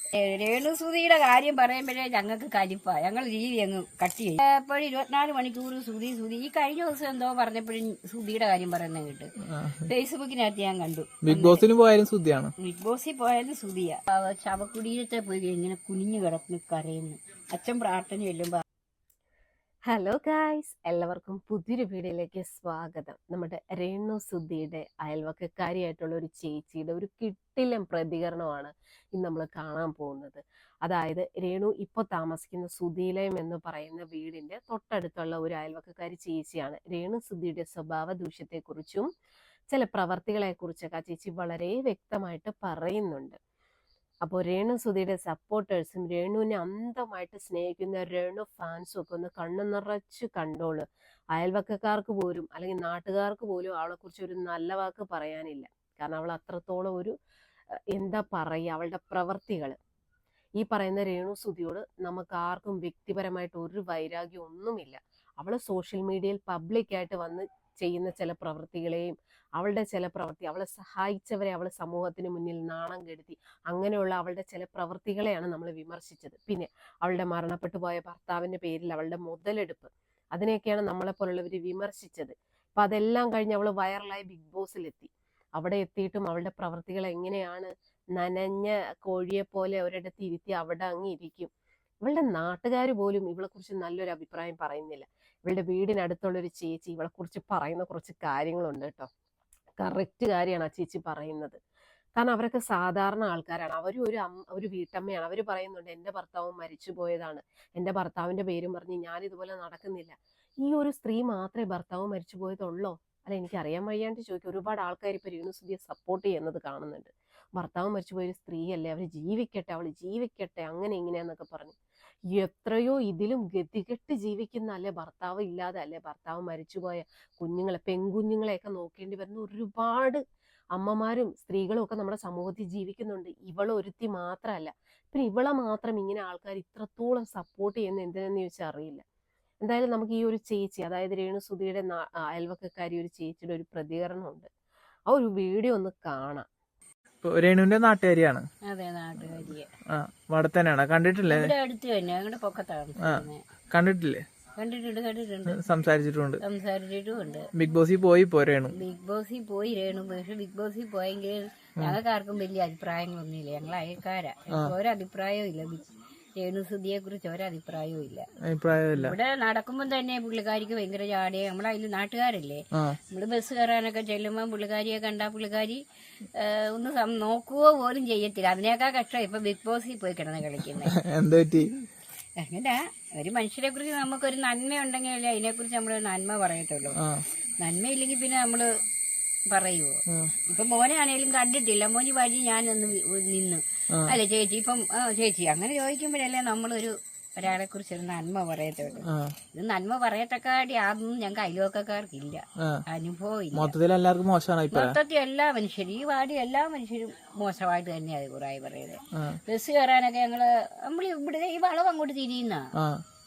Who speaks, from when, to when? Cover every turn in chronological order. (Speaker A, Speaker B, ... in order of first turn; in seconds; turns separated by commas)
Speaker A: 0.1-11.6, Speaker B: 9.5-9.9, Speaker B: 11.2-12.5, Speaker A: 12.6-18.6, Speaker C: 19.9-39.1, Speaker C: 39.7-43.4, Speaker C: 44.2-57.1, Speaker C: 57.9-59.8, Speaker C: 60.6-91.5, Speaker C: 92.0-99.1, Speaker C: 99.8-101.6, Speaker C: 102.2-121.8, Speaker C: 122.3-130.2, Speaker C: 130.7-139.0, Speaker C: 139.6-144.5, Speaker C: 145.1-146.4, Speaker B: 147.2-148.4, Speaker A: 148.7-149.7, Speaker B: 149.9-151.5, Speaker A: 151.2-153.4, Speaker B: 153.0-154.2, Speaker A: 154.6-155.6, Speaker B: 155.5-156.4, Speaker A: 156.4-157.5, Speaker B: 157.5-158.8, Speaker A: 158.7-168.2, Speaker B: 168.4-169.2, Speaker A: 168.9-175.8, Speaker A: 176.3-180.9, Speaker B: 180.7-181.7, Speaker A: 182.4-187.0, Speaker B: 186.9-187.2, Speaker A: 187.6-188.7, Speaker A: 189.5-203.7, Speaker B: 199.1-199.3, Speaker B: 203.5-205.0, Speaker A: 204.7-212.6, Speaker B: 212.8-213.0